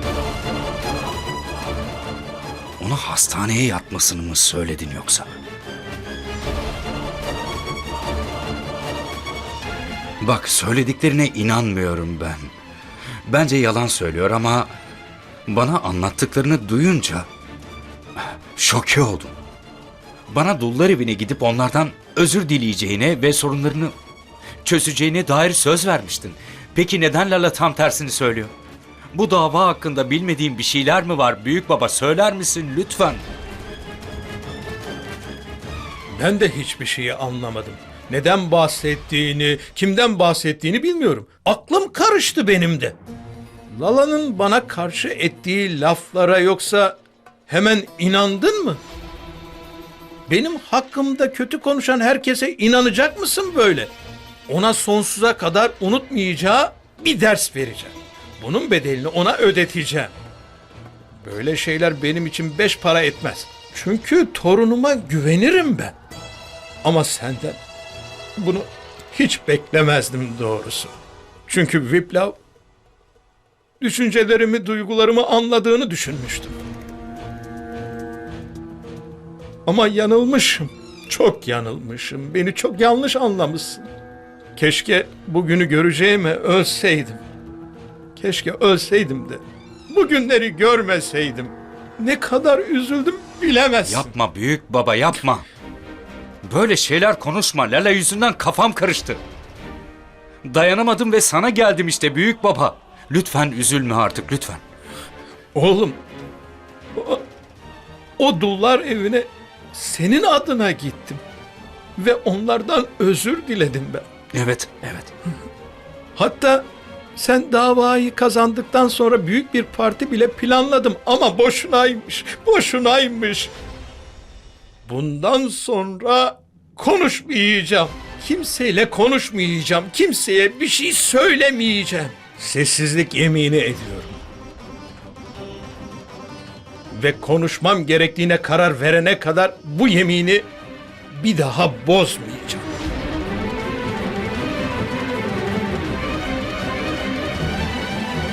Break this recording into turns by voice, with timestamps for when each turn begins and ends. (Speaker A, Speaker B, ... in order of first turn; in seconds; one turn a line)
Speaker A: 2.8-5.3
Speaker A: 10.2-12.5
Speaker A: 13.3-14.7
Speaker A: 15.5-17.2
Speaker A: 18.2-19.3
Speaker A: 20.3-23.9
Speaker A: 24.6-28.5
Speaker A: 29.1-33.2
Speaker B: 36.1-43.0
Speaker B: 43.7-48.8
Speaker B: 50.3-53.9
Speaker B: 54.5-60.1
Speaker B: 61.2-65.9
Speaker B: 66.8-67.6
Speaker B: 68.4-70.9
Speaker B: 71.5-72.4
Speaker B: 73.8-76.5
Speaker B: 79.7-83.9
Speaker B: 84.6-87.2
Speaker B: 88.2-94.1
Speaker A: 93.8-95.4
Speaker A: 96.4-99.2
Speaker A: 100.4-104.6
Speaker B: 105.5-106.0
Speaker B: 107.0-107.2
Speaker B: 108.2-111.2
Speaker B: 112.0-114.0
Speaker A: 114.3-115.1
Speaker B: 116.2-116.6
Speaker B: 117.2-123.5
Speaker B: 124.8-134.2
Speaker B: 136.9-140.4
Speaker B: 141.1-142.7